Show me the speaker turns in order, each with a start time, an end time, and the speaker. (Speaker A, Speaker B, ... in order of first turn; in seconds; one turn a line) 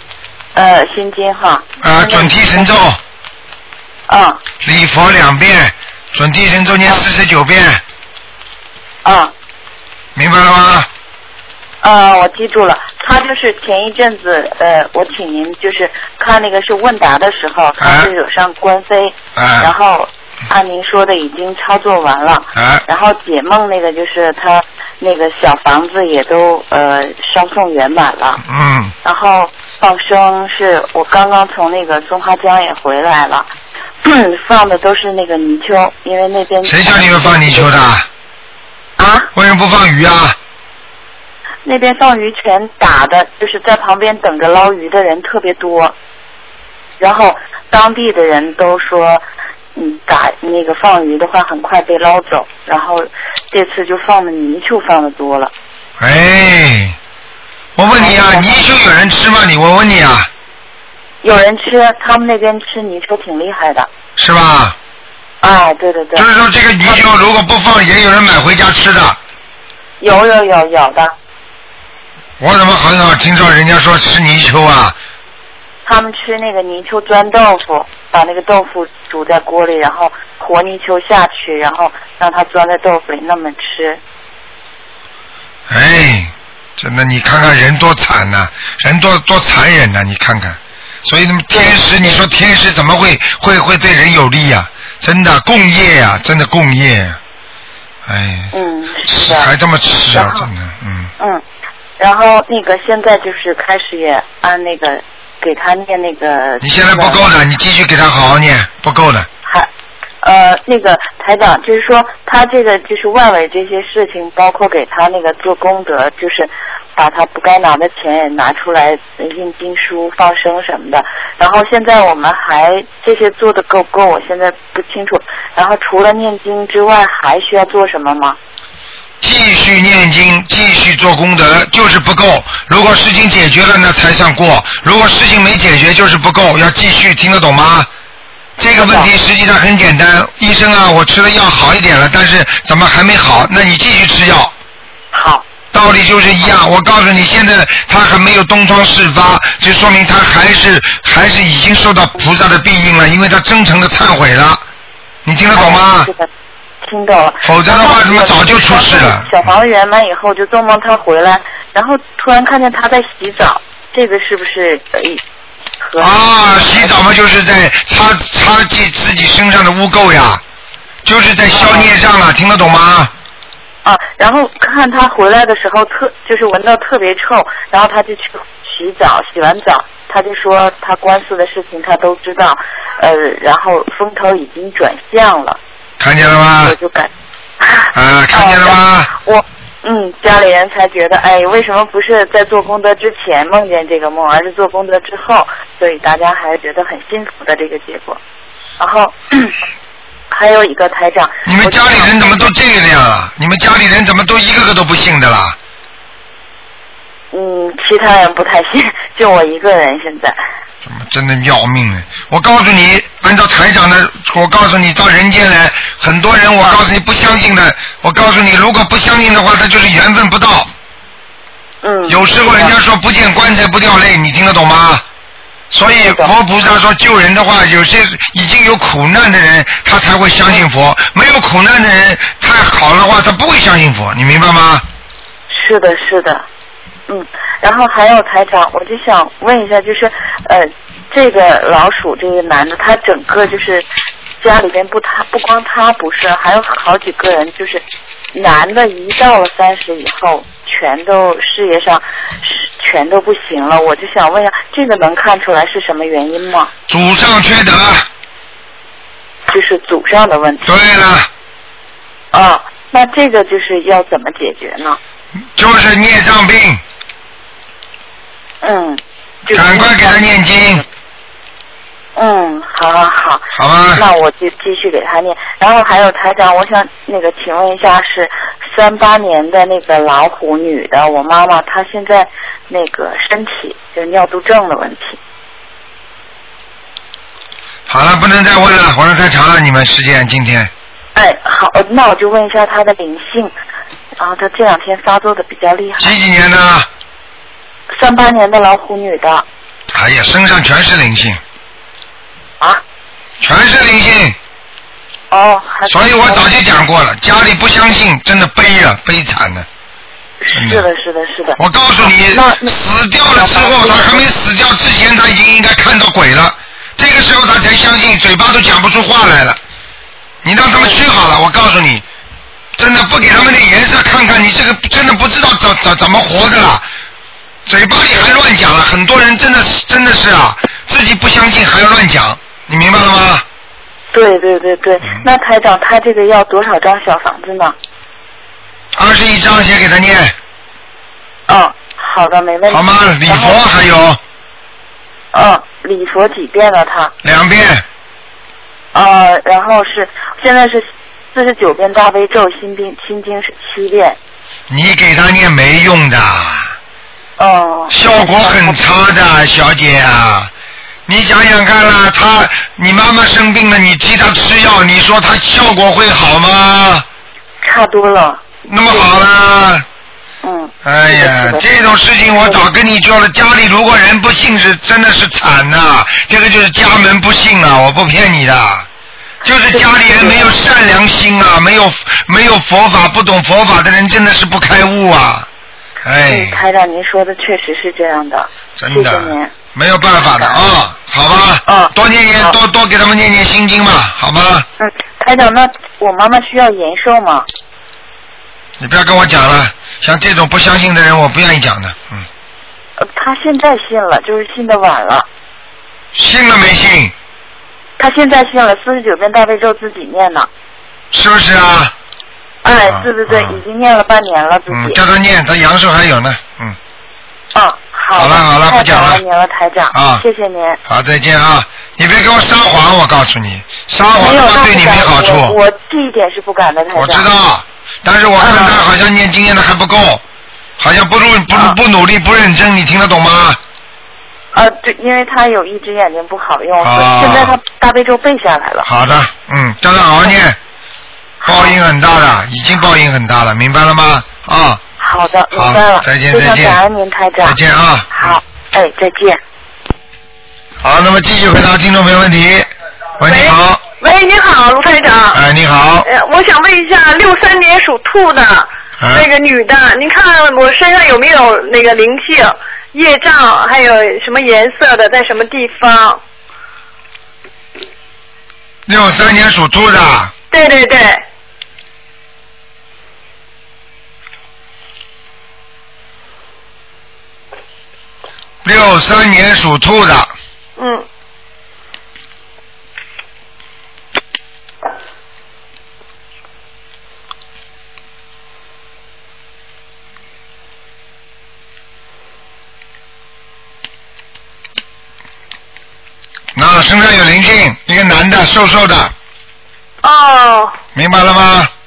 Speaker A: 0.5-2.8
Speaker B: 1.8-3.0
Speaker A: 4.1-4.4
Speaker B: 4.6-7.8
Speaker A: 9.0-9.3
Speaker B: 10.2-10.9
Speaker A: 11.8-28.4
Speaker B: 17.8-18.1
Speaker B: 19.4-19.7
Speaker B: 22.6-22.8
Speaker B: 28.4-28.9
Speaker A: 29.0-33.5
Speaker A: 34.0-37.8
Speaker B: 36.6-38.1
Speaker A: 39.0-39.3
Speaker B: 39.3-40.4
Speaker A: 41.6-46.0
Speaker A: 47.0-49.2
Speaker A: 49.8-55.5
Speaker B: 56.0-57.0
Speaker B: 57.8-60.3
Speaker A: 57.9-58.6
Speaker A: 61.2-63.9
Speaker B: 64.2-64.8
Speaker A: 65.4-66.3
Speaker B: 66.2-69.2
Speaker A: 70.0-71.1
Speaker B: 72.4-75.0
Speaker A: 75.9-84.0
Speaker B: 85.7-97.2
Speaker A: 91.5-92.2
Speaker B: 98.1-98.5
Speaker A: 98.5-99.5
Speaker B: 99.1-101.1
Speaker A: 100.1-100.5
Speaker A: 102.0-107.3
Speaker B: 106.6-109.3
Speaker A: 110.2-128.4
Speaker B: 129.2-137.9
Speaker B: 138.6-144.5
Speaker A: 138.7-139.1
Speaker A: 145.1-145.4
Speaker B: 145.7-154.6
Speaker B: 155.2-156.1
Speaker A: 155.5-156.3
Speaker A: 156.8-165.2
Speaker B: 157.4-159.3
Speaker A: 165.8-166.9
Speaker B: 166.0-170.4
Speaker B: 171.1-173.1
Speaker A: 171.5-171.9
Speaker A: 173.8-185.6
Speaker B: 186.0-186.8
Speaker A: 186.6-198.2
Speaker B: 187.9-189.1
Speaker A: 198.8-199.6
Speaker A: 200.3-202.3
Speaker B: 201.5-205.6
Speaker A: 207.3-210.4
Speaker B: 210.8-220.7
Speaker A: 221.8-222.8
Speaker B: 222.1-225.0
Speaker B: 225.7-234.8
Speaker A: 226.0-226.3
Speaker A: 235.5-236.4
Speaker A: 237.1-243.8
Speaker A: 244.4-256.7
Speaker B: 256.9-258.1
Speaker A: 259.5-260.7
Speaker B: 260.6-261.3
Speaker A: 262.3-265.0
Speaker B: 265.6-266.8
Speaker A: 268.6-270.9
Speaker B: 269.5-270.8
Speaker A: 272.2-285.2
Speaker B: 273.6-274.0
Speaker B: 287.9-290.7
Speaker A: 291.1-293.5
Speaker A: 294.2-296.2
Speaker B: 296.0-296.9
Speaker A: 297.9-299.4
Speaker B: 299.9-301.4
Speaker B: 303.4-304.4
Speaker A: 305.3-306.6
Speaker B: 305.9-309.7
Speaker A: 310.4-312.8
Speaker B: 310.5-310.9
Speaker B: 311.6-319.6
Speaker A: 313.3-314.3
Speaker B: 320.4-322.0
Speaker A: 320.8-321.0
Speaker B: 322.8-326.9
Speaker B: 327.7-333.4
Speaker A: 334.1-337.8
Speaker B: 338.9-340.4
Speaker A: 341.5-343.6
Speaker B: 342.7-344.2
Speaker A: 345.3-347.1
Speaker B: 347.2-347.9
Speaker A: 348.9-354.2
Speaker B: 354.7-356.8
Speaker A: 357.4-358.8
Speaker B: 357.9-360.5
Speaker B: 361.1-367.1
Speaker A: 367.6-369.3
Speaker B: 368.7-369.9
Speaker A: 370.4-371.6
Speaker B: 370.9-378.9
Speaker A: 372.4-372.6
Speaker B: 379.4-385.5
Speaker A: 379.5-380.6
Speaker B: 386.0-386.6
Speaker A: 386.3-389.5
Speaker B: 388.8-394.7
Speaker A: 390.2-390.6
Speaker A: 391.7-392.6
Speaker A: 394.8-397.5
Speaker B: 398.8-402.3
Speaker A: 403.0-405.3
Speaker B: 406.1-407.1
Speaker A: 408.0-410.5
Speaker B: 411.1-411.9
Speaker A: 412.6-415.0
Speaker B: 412.9-413.6
Speaker B: 414.7-416.8
Speaker A: 417.5-420.8
Speaker B: 418.2-419.2
Speaker B: 419.9-420.2
Speaker B: 420.9-425.6
Speaker A: 424.2-427.3
Speaker B: 426.9-430.2
Speaker A: 428.4-428.8
Speaker B: 430.8-433.6
Speaker A: 434.5-438.9
Speaker B: 436.8-437.6
Speaker B: 438.9-440.6
Speaker A: 441.4-441.8
Speaker B: 441.5-444.8
Speaker A: 445.0-447.6
Speaker B: 445.5-446.8
Speaker B: 447.4-448.4
Speaker A: 448.1-449.4
Speaker B: 450.8-453.8
Speaker C: 453.2-455.4
Speaker B: 455.3-456.1
Speaker C: 456.0-466.2
Speaker B: 459.0-459.3
Speaker B: 468.9-470.3
Speaker C: 470.5-471.2
Speaker B: 478.6-480.3
Speaker C: 480.8-481.1
Speaker B: 496.6-499.1
Speaker C: 500.0-500.8
Speaker B: 500.9-501.7